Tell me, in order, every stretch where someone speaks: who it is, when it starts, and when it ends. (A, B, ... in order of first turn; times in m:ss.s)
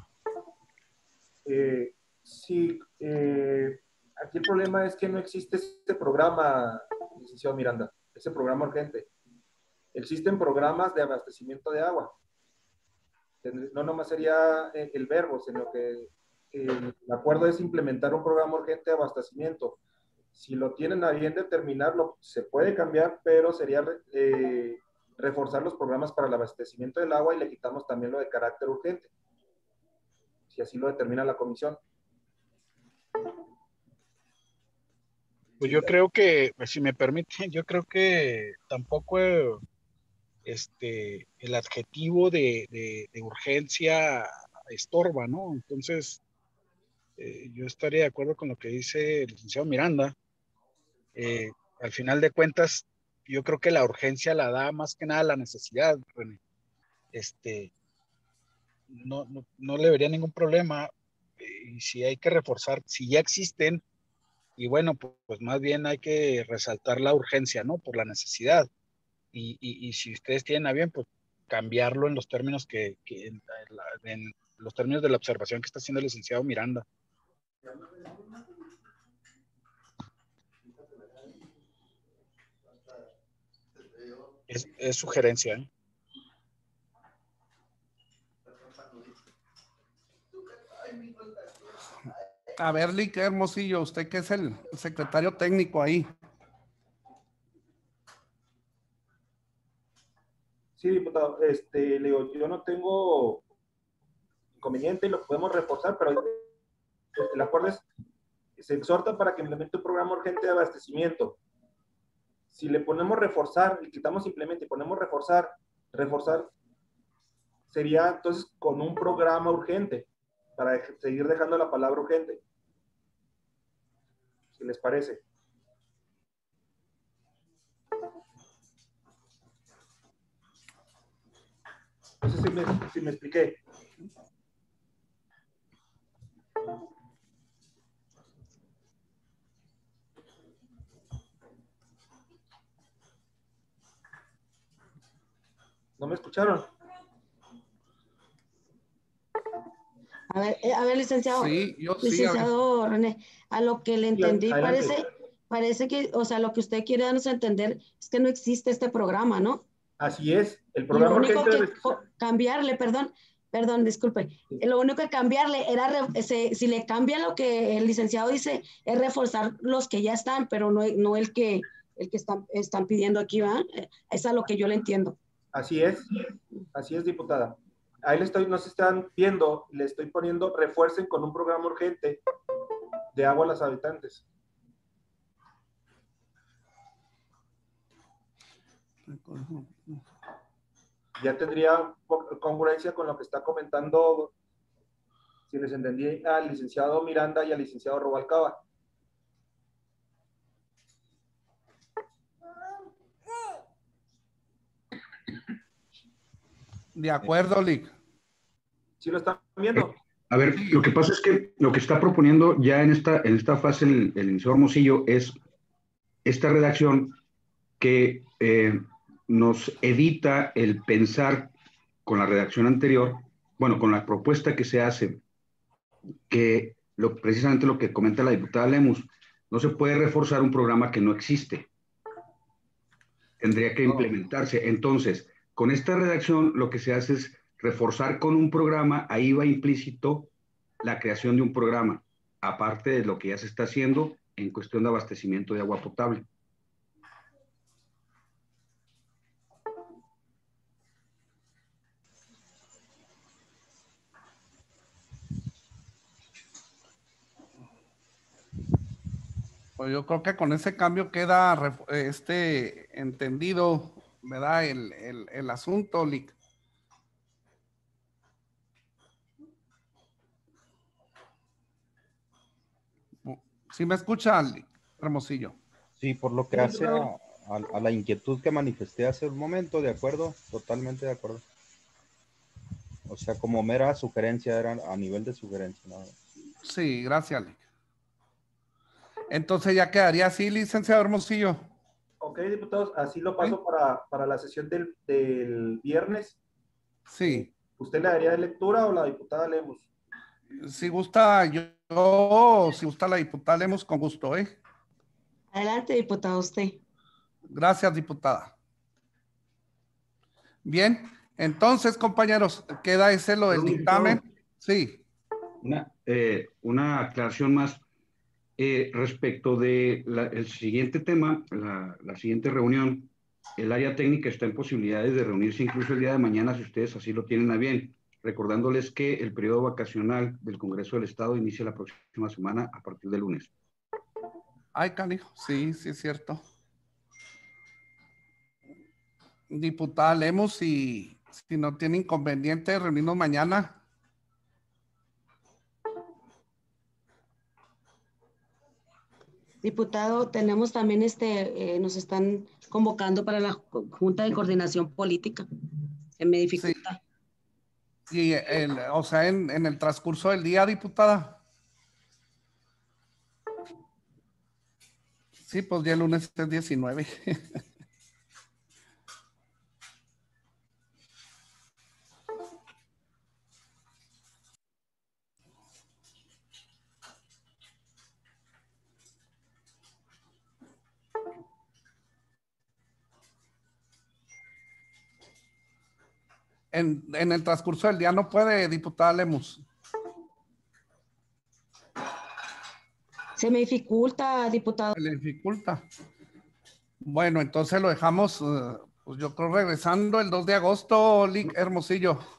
0:01.4-0:09.1 A
0:09.9-0:12.2 A
0:13.4-0:19.8 A
0:20.3-0:29.1 A
0:30.5-0:31.8 A
0:35.6-0:39.6 B
0:40.4-0:46.2 B
0:47.2-0:50.2 B
0:51.2-0:56.4 B
0:57.1-0:57.7 B
0:58.9-1:03.8 B
1:04.6-1:08.7 B
1:09.3-1:16.8 B
1:24.5-1:25.7 B
1:32.6-1:36.1 C
1:40.8-1:43.4 A
1:44.6-1:46.4 A
1:47.2-1:47.8 A
1:48.6-1:51.4 A
1:52.5-1:56.5 A
1:57.7-2:02.4 A
2:04.5-2:05.2 A
2:12.2-2:13.6 A
2:26.0-2:26.7 A
2:30.3-2:39.6 D
2:31.3-2:32.5 C
2:34.2-2:35.0 A
2:40.0-2:42.0 A
2:40.9-2:55.2 D
2:55.5-2:56.2 A
2:56.7-3:02.2 A
3:03.1-3:04.2 A
3:09.1-3:10.0 C
3:11.2-3:14.3 A
3:15.5-3:18.6 A
3:27.0-3:27.9 C
3:29.0-3:30.0 A
3:29.8-3:35.4 E
3:36.2-3:37.2 E
3:37.8-3:41.5 E
3:42.1-3:45.2 E
3:46.3-3:51.7 E
3:53.4-4:06.3 E
3:53.9-3:54.1 C
4:19.8-4:26.4 C
4:33.3-4:35.6 C
4:36.0-4:41.4 F
4:36.5-4:37.1 A
4:43.1-4:46.1 F
4:46.6-4:47.6 C
4:49.3-4:51.6 C
4:52.2-4:56.4 A
4:57.1-4:57.5 C
4:57.8-4:59.9 A
5:00.6-5:04.6 C
5:05.5-5:06.8 D
5:07.5-5:08.5 C
5:10.6-5:15.0 C
5:13.5-5:14.2 E
5:15.6-5:17.8 E
5:18.6-5:33.5 E
5:34.7-5:36.4 C
5:39.5-5:43.8 C
5:49.6-5:55.5 D
5:56.2-5:57.0 D
5:58.1-6:01.4 C
6:05.4-6:07.6 C
6:26.7-6:29.6 C
6:33.4-6:35.0 D
6:35.0-6:35.8 C
6:37.0-6:42.2 C